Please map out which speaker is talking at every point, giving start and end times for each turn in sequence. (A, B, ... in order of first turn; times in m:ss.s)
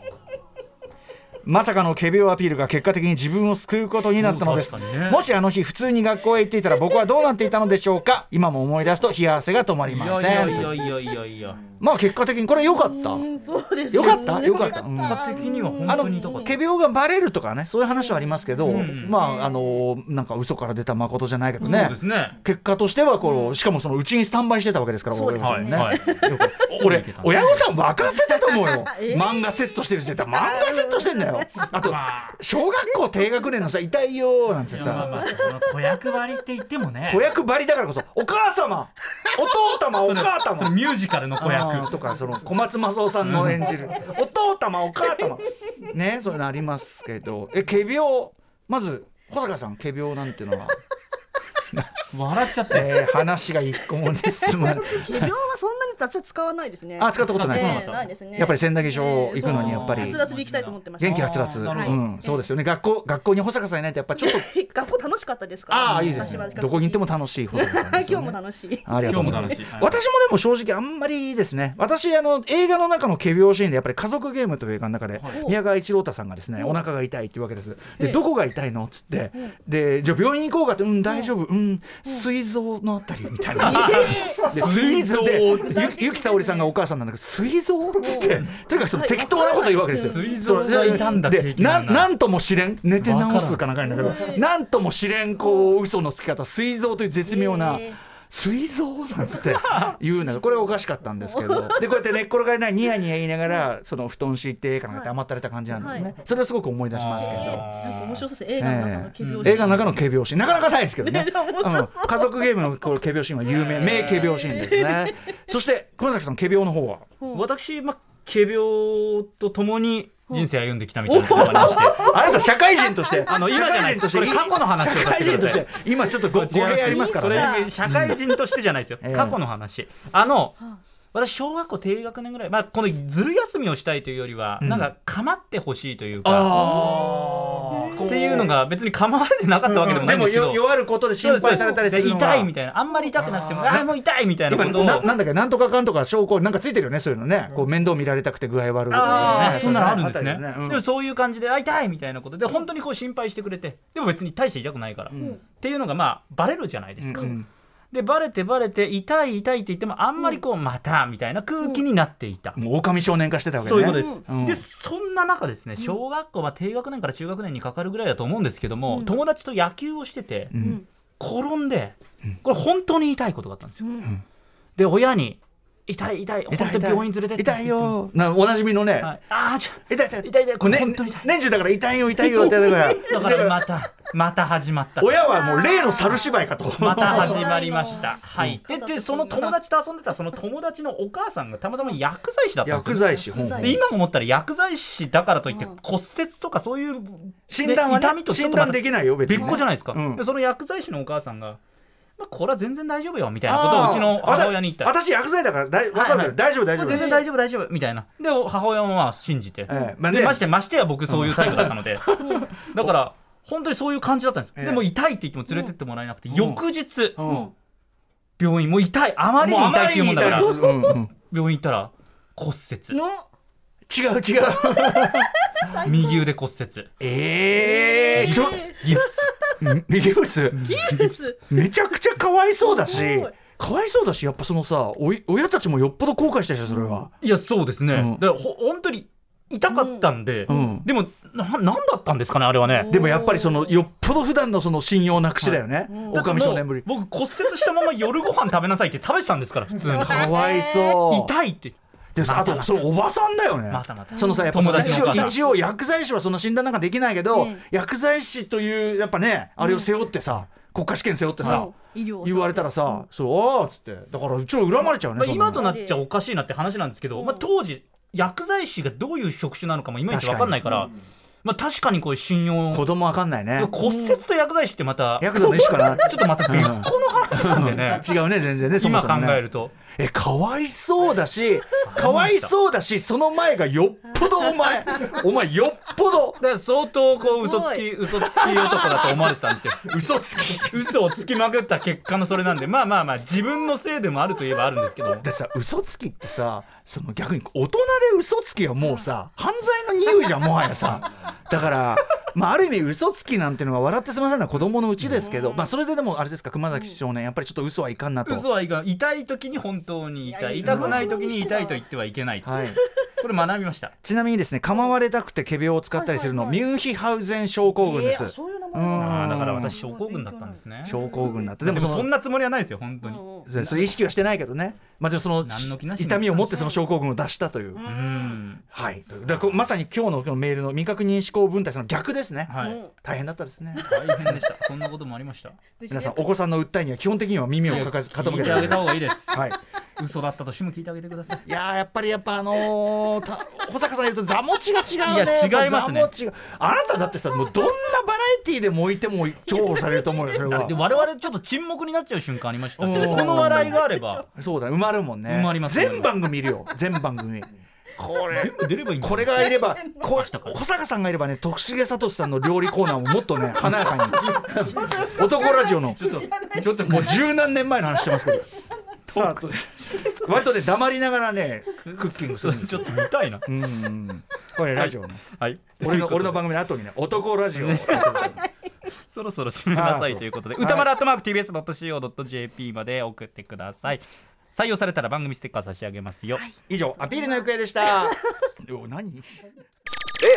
0:01.4-0:10.9 A
0:04.2-0:05.2 B
0:09.8-0:11.6 B
0:11.8-0:13.2 A
0:12.5-0:16.5 C
0:13.9-0:15.2 A
0:13.9-0:16.5 B
0:15.8-0:35.1 A
0:17.9-0:19.8 C
0:18.6-0:19.2 B
0:21.6-0:21.9 C
0:21.6-0:22.4 B
0:23.2-0:23.6 C
0:25.1-0:26.7 C
0:25.4-0:27.6 B
0:28.1-0:31.7 C
0:31.8-0:32.4 B
0:32.9-0:33.6 C
0:34.7-0:37.3 B
0:37.1-0:40.8 A
0:40.0-0:42.0 B
0:41.4-0:50.8 A
0:43.2-0:43.6 B
0:51.7-0:55.3 A
0:52.1-0:53.0 B
0:54.4-1:02.5 C
0:57.0-1:00.2 A
0:57.2-0:58.0 B
0:59.4-1:02.0 B
1:01.0-1:04.5 A
1:04.2-1:09.6 C
1:05.7-1:47.7 A
1:05.8-1:06.5 B
1:09.0-1:10.0 B
1:15.3-1:15.6 C
1:16.6-1:16.8 C
1:18.0-1:18.2 C
1:21.0-1:21.3 C
1:23.6-1:24.8 C
1:23.6-1:25.9 B
1:25.6-1:26.7 C
1:28.0-1:31.2 C
1:28.2-1:28.6 B
1:30.0-1:32.1 B
1:33.0-1:33.7 B
1:33.8-1:34.4 C
1:35.4-1:35.7 C
1:37.2-1:38.0 C
1:39.7-1:39.9 B
1:41.2-1:41.8 C
1:44.9-1:45.1 C
1:45.8-1:46.1 C
1:46.9-1:48.2 B
1:47.2-1:49.8 C
1:48.6-1:57.1 A
1:49.2-1:50.0 B
1:51.0-1:52.8 C
1:53.4-1:54.5 B
1:54.3-1:55.3 C
1:57.2-1:57.5 C
1:57.3-2:02.1 B
2:01.0-2:03.2 C
2:01.3-2:08.2 A
2:03.2-2:10.6 B
2:06.8-2:07.7 C
2:09.0-2:09.4 A
2:11.1-2:17.1 B
2:14.6-2:14.9 A
2:16.2-2:18.6 A
2:16.5-2:18.5 C
2:18.0-2:25.1 B
2:19.6-2:22.5 A
2:21.4-2:21.9 C
2:23.2-2:23.9 A
2:24.5-2:30.8 A
2:28.9-2:37.4 B
2:29.0-2:29.8 C
2:35.1-2:35.4 A
2:35.1-2:35.4 C
2:37.0-2:37.5 A
2:37.9-2:42.6 B
2:42.6-2:44.6 A
2:43.6-2:50.5 B
2:43.9-2:44.2 C
2:48.9-2:49.2 C
2:50.5-2:50.8 A
2:50.5-2:50.8 C
2:51.2-2:53.9 B
2:53.8-2:54.2 C
2:54.8-2:58.0 B
2:56.5-2:59.2 A
2:59.0-3:01.3 B
2:59.9-3:03.7 A
3:02.2-3:03.2 C
3:03.1-3:05.2 B
3:05.0-3:07.5 A
3:05.2-3:09.6 C
3:06.8-3:21.6 B
3:12.6-3:13.8 A
3:13.0-3:13.8 C
3:15.5-3:15.8 C
3:17.5-3:20.2 A
3:22.2-3:24.9 B
3:23.4-3:27.2 A
3:25.9-3:37.2 B
3:26.9-3:27.2 C
3:29.6-3:30.4 A
3:29.7-3:30.0 C
3:31.1-3:32.9 A
3:32.2-3:32.5 C
3:34.6-3:34.9 A
3:36.3-3:36.6 A
3:37.2-3:37.5 A
3:37.2-3:37.5 C
3:38.4-3:43.0 B
3:39.4-3:41.1 A
3:40.5-3:40.9 C
3:42.9-3:43.2 C
3:43.9-3:45.3 A
3:44.8-3:46.3 C
3:45.8-3:46.9 B
3:47.0-3:49.0 A
3:47.6-3:49.7 C
3:48.1-3:49.3 B
3:49.6-3:50.7 A
3:50.5-3:51.2 B
3:50.6-3:51.8 C
3:51.5-3:57.1 A
3:52.6-3:53.4 C
3:56.7-3:57.0 C
3:57.2-4:02.9 B
3:57.9-3:58.2 A
3:59.7-4:00.8 C
4:00.5-4:00.9 A
4:02.7-4:03.8 C
4:02.9-4:06.9 A
4:05.4-4:10.3 B
4:05.9-4:06.2 C
4:09.8-4:11.0 C
4:09.9-4:11.3 A
4:11.1-4:12.9 B
4:12.1-4:25.6 A
4:13.7-4:15.4 B
4:14.1-4:15.6 C
4:17.3-4:17.7 C
4:19.6-4:19.9 C
4:21.4-4:21.7 B
4:21.4-4:23.1 C
4:25.1-4:30.9 B
4:25.5-4:26.0 C
4:27.1-4:27.5 C
4:30.1-4:30.9 A
4:31.4-4:32.9 B
4:32.7-4:33.8 A
4:33.5-4:38.1 B
4:33.8-4:34.2 C
4:35.2-4:46.4 A
4:35.4-4:35.9 C
4:38.8-4:39.7 B
4:41.8-4:42.5 B
4:46.4-4:50.0 B
4:47.3-4:47.9 C
4:48.1-4:50.9 A
4:50.5-4:55.3 B
4:55.2-5:08.5 A
5:05.2-5:05.7 C
5:06.7-5:07.0 C
5:08.2-5:12.5 B
5:10.2-5:11.8 C
5:10.6-5:11.1 A
5:12.4-5:12.8 A
5:13.2-5:13.9 B
5:14.0-5:19.8 A
5:15.9-5:16.6 C
5:17.8-5:21.6 C
5:19.0-5:21.0 B
5:20.8-5:22.1 A
5:21.6-5:24.0 B
5:23.0-5:23.5 C
5:23.4-5:27.9 A
5:25.4-5:26.7 B
5:26.5-5:26.8 C
5:27.7-5:28.4 C
5:27.8-5:29.7 B
5:28.7-5:34.4 A
5:32.5-5:32.8 B
5:32.6-5:32.9 C
5:33.7-5:34.1 C
5:33.8-5:35.6 B
5:35.8-5:36.4 C
5:35.9-5:39.6 A
5:37.6-5:39.4 B
5:40.0-5:41.4 B
5:41.4-5:50.8 A
5:45.0-5:46.1 B
5:50.4-5:54.2 B
5:52.8-5:53.8 A
5:53.6-5:54.2 C
5:54.4-6:08.5 A
5:55.2-5:56.1 B
5:58.3-5:59.5 B
5:59.6-6:00.0 C
6:00.1-6:00.6 B
6:06.0-6:07.2 B
6:09.1-6:10.5 B
6:09.1-6:15.2 A
6:11.8-6:13.4 B
6:14.7-6:16.4 B
6:15.8-6:18.4 A
6:17.5-6:26.5 B
6:19.7-6:20.9 A
6:26.7-6:29.4 A
6:27.1-6:27.4 C